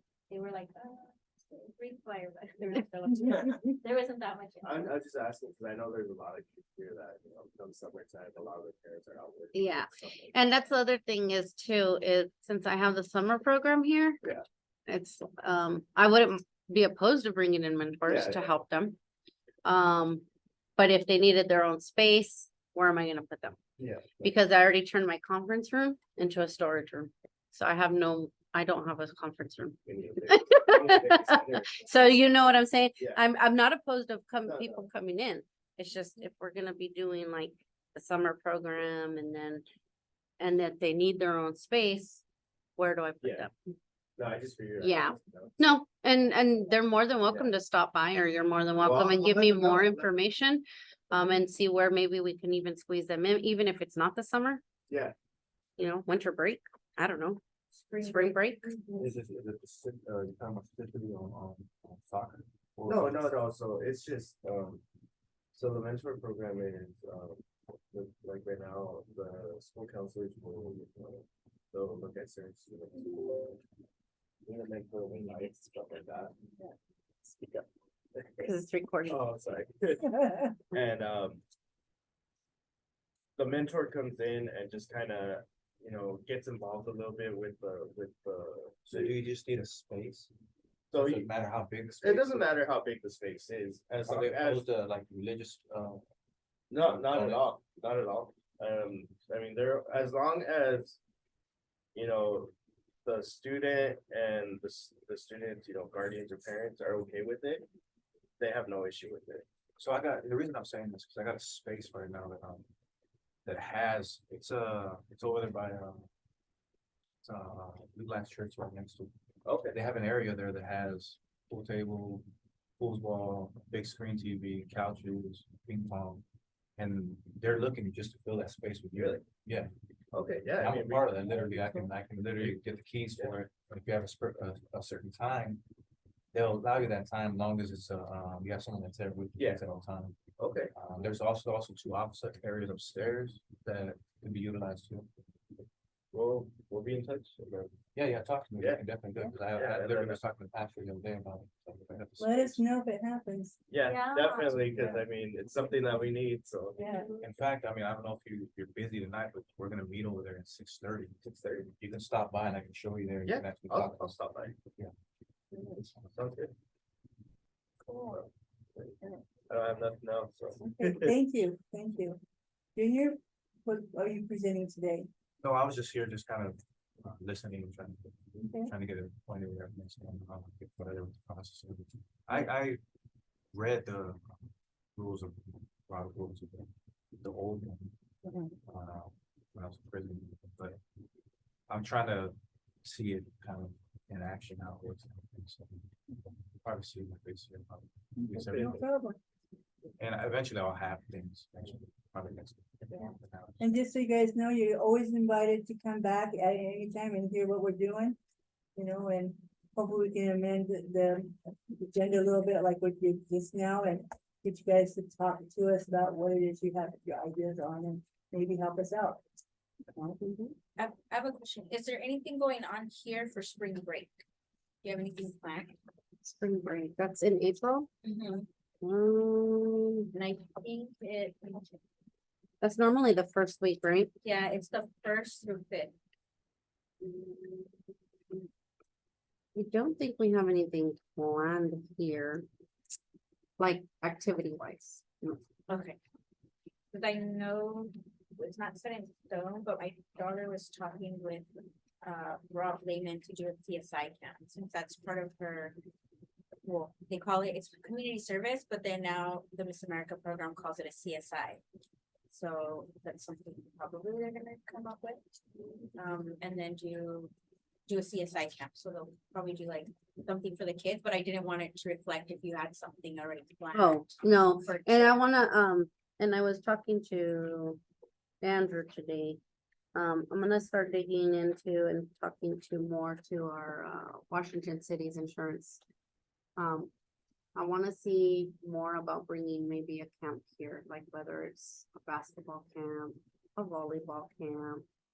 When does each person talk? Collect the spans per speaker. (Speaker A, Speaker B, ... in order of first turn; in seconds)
Speaker A: 0.3-4.9, 57.7-59.1, 153.8-154.6, 156.8-157.2, 167.8-168.2, 220.8-224.2, 224.8-225.8, 228.0-228.5, 230.1-231.8, 234.2-235.9, 245.7-246.0, 246.9-251.5, 252.0-255.8, 256.6-261.6, 262.3-265.2, 265.9-267.3, 267.9-275.2
Speaker B: 4.6-10.4, 18.1-18.6, 23.8-24.4, 29.9-32.2, 33.0-33.2, 34.5-34.9, 43.2-43.5, 44.2-45.7, 48.8-50.1, 54.9-55.1, 62.9-64.8, 65.5-73.6, 74.5-76.3, 77.3-78.5, 79.0-80.2, 80.7-81.4, 83.4-89.1, 90.9-91.3, 92.0-94.7, 96.7-101.0, 101.9-102.5, 103.0-107.7, 108.4-109.5, 119.5-119.8, 128.9-129.2, 130.1-131.7, 139.4-139.6, 140.4-140.7, 146.1-147.8, 148.6-148.8, 149.5-150.2, 153.7-156.9, 161.2-161.7, 163.3-164.6, 166.1-166.5, 168.1-169.0, 169.5-171.2, 198.5-198.8
Speaker C: 9.5-14.2, 14.9-19.0, 19.6-20.2, 20.8-23.6, 24.2-39.6, 40.4-42.2, 42.8-43.5, 44.8-54.6, 55.8-57.4, 58.0-58.7, 78.4-79.2, 220.0-220.6, 226.2-227.9, 228.8-230.1, 232.6-234.1, 237.0-237.7, 239.6-242.5, 243.6-245.4, 273.7-277.8, 278.4-279.4, 279.9-285.8, 286.6-286.9, 287.6-294.9
Speaker D: 59.0-63.4, 88.9-90.3, 90.9-92.5, 94.0-96.0, 96.8-97.5, 109.8-112.7, 113.5-116.1, 117.2-119.1, 119.7-122.3, 122.8-126.2, 126.8-129.7, 130.6-135.6, 136.3-140.2, 140.7-145.1, 147.9-152.6, 157.2-164.9, 175.4-182.8, 183.5-184.4, 185.0-187.9, 188.7-190.8, 191.7-198.7, 200.0-203.6
Speaker E: 152.2-153.6, 154.8-155.0, 156.8-157.1, 170.6-172.2, 172.8-175.1, 178.4-178.7, 188.3-188.5, 198.2-199.2, 203.6-208.2, 208.8-219.2